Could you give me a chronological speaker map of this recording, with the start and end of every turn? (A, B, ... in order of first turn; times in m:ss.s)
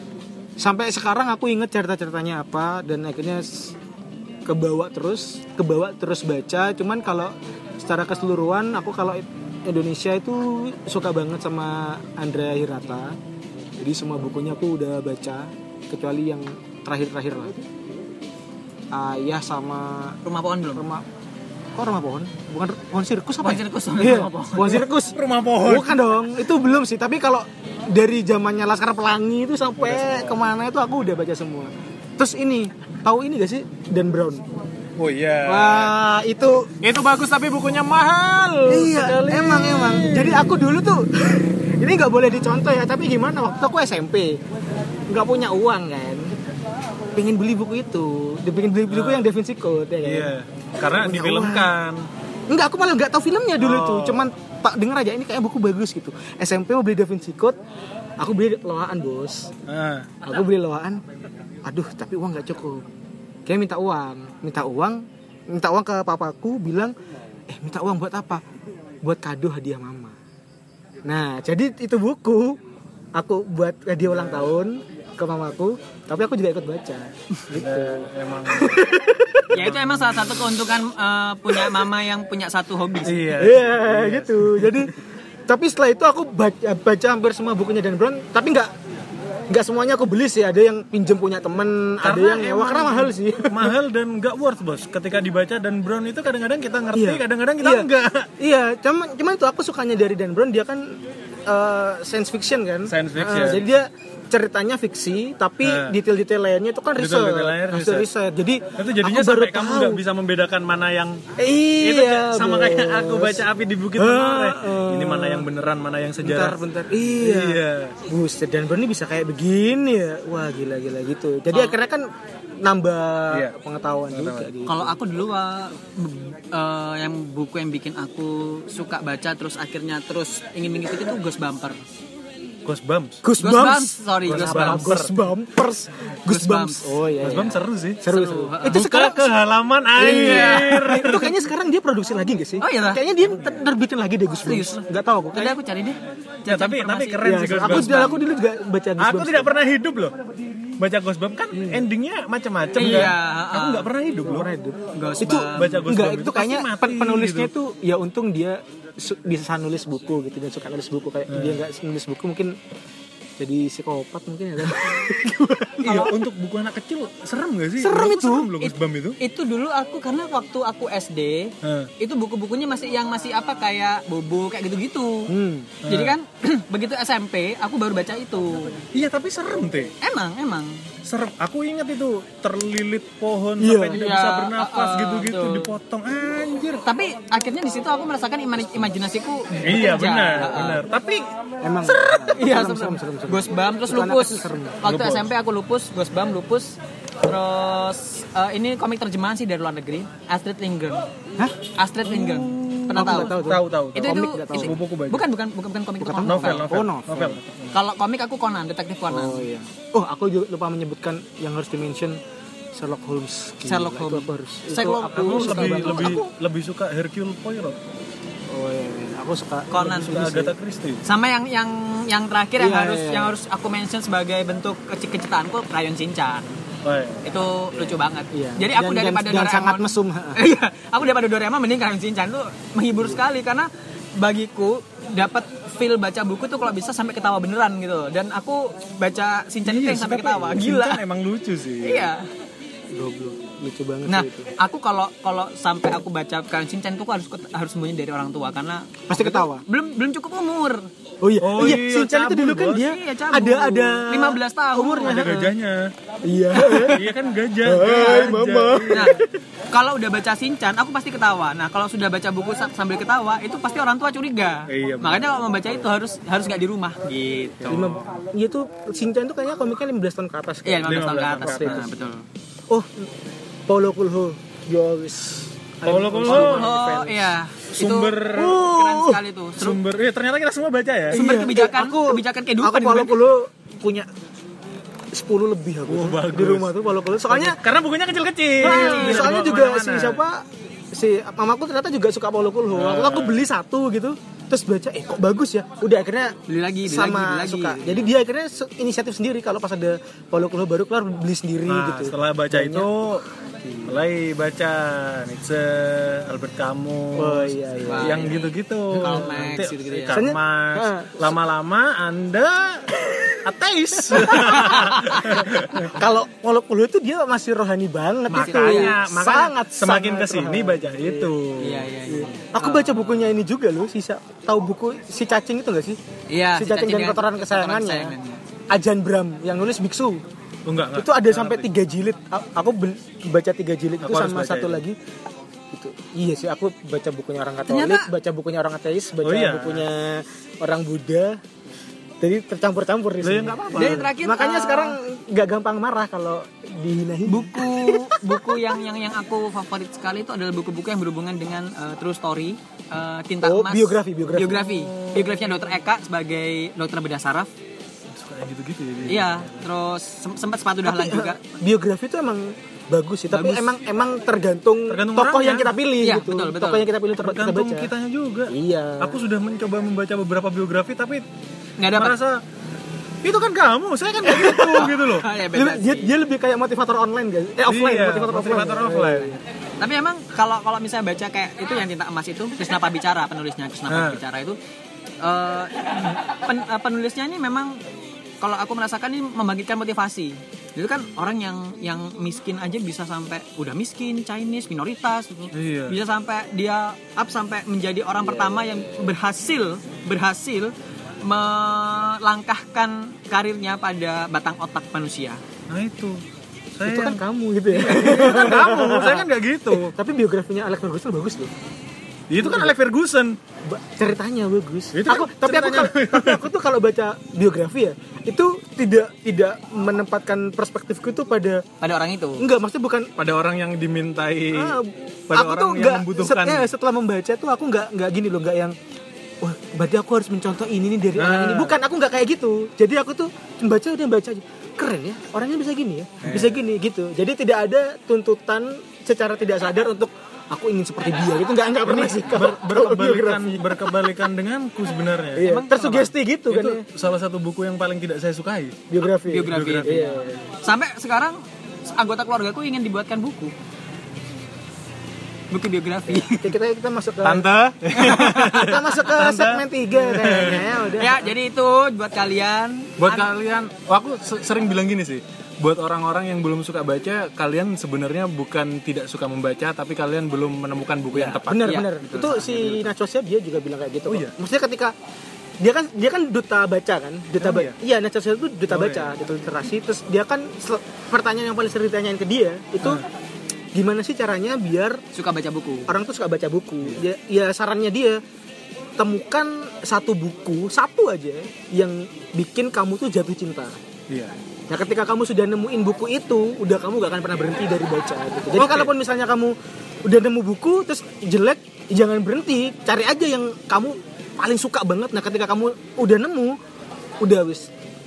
0:00.6-0:03.7 A
0:04.4-0:13.2 A
0:13.8-0:17.6 A
0:18.9-0:20.2 A
0:20.2-0:20.9 B
0:20.7-0:21.0 A
0:21.7-0:34.4 A
0:23.4-0:24.8 B
0:24.6-0:26.1 C
0:29.8-0:30.4 C
0:35.0-0:35.9 C
0:35.4-0:36.7 A
0:36.8-0:40.6 C
0:38.7-0:44.4 A
0:45.1-0:46.3 A
0:47.1-0:50.3 A
0:48.9-0:49.3 C
0:50.0-0:52.0 C
0:50.8-0:51.7 A
0:52.5-0:57.6 A
0:53.6-0:54.3 C
0:58.2-0:59.5 A
0:59.7-1:00.2 C
1:00.2-1:01.0 A
1:01.6-1:02.8 A
1:03.4-1:06.9 A
1:07.5-1:08.4 A
1:09.0-1:10.2 A
1:11.0-1:12.6 A
1:13.2-1:19.6 A
1:14.1-1:14.5 C
1:17.5-1:18.9 C
1:19.5-1:20.6 C
1:19.5-1:23.3 B
1:23.0-1:24.9 C
1:23.4-1:28.7 A
1:29.5-1:33.8 A
1:32.0-1:38.3 C
1:36.9-1:40.9 A
1:41.5-1:50.0 A
1:42.8-1:43.7 C
1:45.6-1:46.0 C
1:47.0-1:48.1 C
1:48.8-1:51.2 C
1:51.4-1:55.5 A
1:51.8-1:58.0 C
1:56.2-2:02.1 A
2:02.6-2:05.0 A
2:04.1-2:04.5 C
2:04.6-2:11.8 B
2:12.6-2:13.2 C
2:13.2-2:19.3 A
2:13.4-2:14.9 B
2:14.2-2:15.1 C
2:16.2-2:17.0 B
2:17.2-2:18.0 C
2:18.0-2:18.9 B
2:18.6-2:21.3 C
2:19.9-2:25.6 A
2:22.6-2:23.0 B
2:24.4-2:24.8 B
2:25.3-2:28.2 B
2:26.5-2:28.2 C
2:27.2-2:29.5 A
2:29.0-2:30.1 C
2:30.8-2:34.5 C
2:31.5-2:31.8 A
2:32.8-2:33.9 B
2:32.8-2:33.1 A
2:34.2-2:42.5 A
2:34.9-2:35.9 B
2:35.3-2:37.5 C
2:41.3-2:41.6 C
2:43.4-2:46.1 A
2:45.8-2:49.2 C
2:47.8-2:48.5 A
2:48.6-2:55.3 B
2:51.6-2:51.9 C
2:55.3-2:55.8 A
2:55.8-2:56.2 C
2:55.8-2:58.8 B
2:58.9-2:59.9 C
3:00.0-3:00.8 B
3:01.0-3:06.8 C
3:03.6-3:04.0 A
3:03.9-3:05.7 B
3:06.8-3:10.8 B
3:09.6-3:11.3 C
3:11.6-3:14.8 A
3:11.8-3:21.1 B
3:14.8-3:15.3 C
3:21.8-3:23.4 B
3:22.0-3:25.3 C
3:22.9-3:24.8 A
3:24.0-3:26.6 B
3:26.0-3:27.4 A
3:26.2-3:27.8 C
3:27.7-3:29.5 B
3:29.1-3:32.2 A
3:32.7-3:36.2 A
3:33.6-3:36.2 B
3:35.1-3:37.8 C
3:38.5-3:40.5 A
3:39.7-3:40.2 B
3:39.8-3:41.0 C
3:41.0-3:46.6 B
3:42.6-3:43.4 A
3:46.8-3:47.2 C
3:47.2-4:01.0 B
3:47.7-3:50.4 A
3:59.6-4:02.1 C
4:01.8-4:02.3 B
4:02.9-4:04.5 A
4:04.0-4:10.9 B
4:09.1-4:09.6 A
4:11.2-4:15.5 A
4:11.4-4:12.9 C
4:12.8-4:15.4 B
4:15.0-4:15.9 C
4:16.2-4:17.1 A
4:16.6-4:16.9 B
4:16.8-4:19.2 C
4:17.6-4:19.3 A
4:18.0-4:18.3 B
4:18.9-4:27.9 B
4:24.7-4:25.8 C
4:27.6-4:28.1 C
4:27.7-4:31.9 A
4:30.6-4:32.2 B
4:30.8-4:32.0 C
4:32.7-4:33.1 A
4:33.7-4:37.3 A
4:35.8-4:36.8 C
4:36.2-4:39.8 B
4:37.7-4:38.6 C
4:38.3-4:39.2 A
4:39.6-4:41.2 C
4:41.1-4:44.1 A
4:41.1-4:43.2 B
4:45.1-4:47.6 A
4:45.9-4:50.2 C
4:48.6-5:02.9 A
4:48.6-4:49.3 B
4:52.7-4:53.4 C
4:56.5-4:58.1 B
5:01.7-5:03.2 C
5:03.6-5:04.0 A
5:03.8-5:15.9 C
5:07.2-5:08.4 A
5:07.8-5:10.2 B
5:09.0-5:09.6 A
5:10.1-5:11.3 A
5:14.1-5:21.3 A
5:14.6-5:15.2 B
5:18.3-5:21.9 C
5:18.4-5:18.9 B
5:21.6-5:23.0 B
5:22.1-5:26.0 A
5:26.3-5:28.4 B
5:26.5-5:28.1 A
5:28.7-5:30.2 A
5:30.7-5:31.7 C
5:30.9-5:35.0 A
5:34.0-5:34.8 C
5:35.7-5:41.4 A
5:37.7-5:38.1 B
5:39.2-5:39.8 C
5:42.2-5:48.6 A
5:43.2-5:44.1 C
5:43.7-5:45.0 B
5:47.3-5:57.5 B
5:53.4-5:54.6 A
5:54.4-5:55.7 C
5:58.1-5:59.7 C
5:59.1-6:01.5 B
6:00.8-6:07.9 A
6:03.3-6:03.6 B
6:04.9-6:05.7 C
6:06.0-6:06.9 B
6:07.2-6:11.2 C
6:08.5-6:09.2 A
6:11.8-6:12.2 B
6:11.9-6:12.4 C
6:13.2-6:15.3 C
6:14.2-6:14.9 A
6:14.7-6:16.1 B
6:15.5-6:19.4 A
6:17.7-6:19.4 C
6:19.8-6:24.6 B
6:23.9-6:24.2 C
6:25.2-6:27.8 B
6:28.4-6:45.4 B
6:35.5-6:36.0 C
6:38.2-6:39.1 A
6:45.7-6:46.2 C
6:46.8-6:47.2 C
6:46.8-6:51.5 A
6:47.7-6:49.9 C
6:47.9-6:48.4 B
6:52.3-6:53.4 C
6:52.4-6:52.7 A
6:53.6-7:01.6 A
6:54.9-6:56.5 C
7:01.8-7:02.5 B
7:02.4-7:03.1 A
7:03.2-7:06.7 C
7:04.5-7:08.8 A
7:09.4-7:24.1 A
7:11.2-7:11.8 C
7:16.2-7:16.6 C
7:21.8-7:25.5 C
7:25.4-7:26.8 A
7:25.4-7:26.1 B
7:26.5-7:28.9 C
7:28.9-7:30.5 A
7:29.2-7:33.5 B
7:29.4-7:30.0 C
7:35.5-7:36.5 B
7:36.1-7:37.5 A
7:37.2-7:40.8 C
7:37.9-7:38.8 B
7:38.2-7:41.3 A
7:41.0-7:43.3 B
7:43.0-7:51.8 C
7:51.1-7:52.6 B
7:51.4-7:54.9 A
7:52.5-7:52.7 C
7:54.1-7:54.3 C
7:55.6-8:03.0 A
7:57.4-7:57.8 C
7:58.7-7:59.2 C
8:03.7-8:05.0 A
8:05.1-8:05.9 B
8:05.9-8:08.2 A
8:09.0-8:13.8 A
8:14.1-8:14.3 C
8:14.7-8:26.6 A
8:18.6-8:18.9 C
8:27.2-8:27.7 A